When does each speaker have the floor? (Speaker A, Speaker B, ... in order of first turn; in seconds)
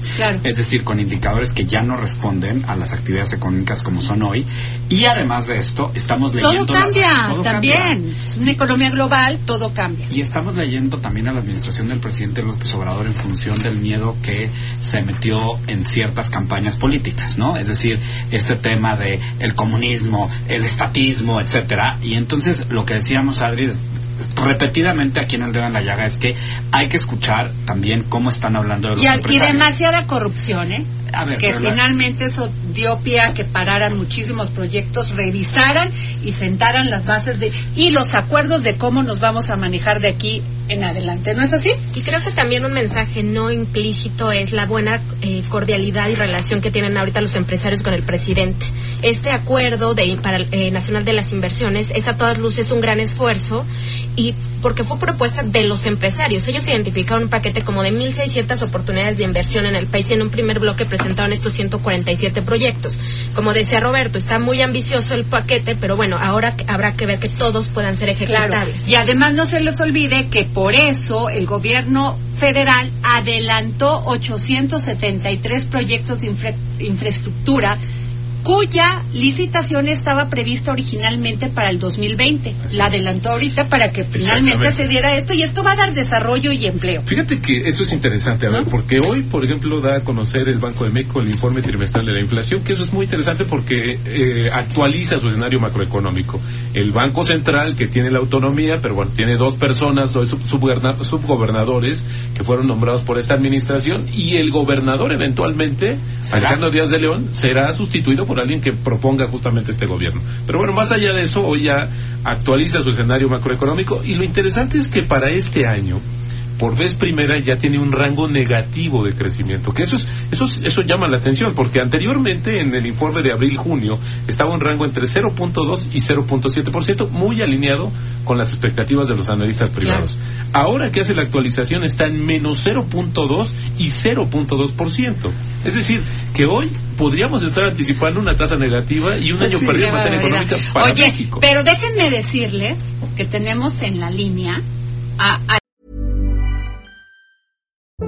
Speaker A: 0.1-0.4, 6.4-10.1, 28.9-30.9, 31.4-41.8, 68.2-77.8, 78.4-87.0, 129.8-130.1, 139.4-144.6, 145.2-145.6
Speaker B: 0.4-8.0, 10.1-29.7, 31.1-31.8, 106.2-106.6
Speaker C: 41.9-68.9
Speaker D: 82.7-83.1, 84.1-84.8, 87.0-116.0, 116.6-141.4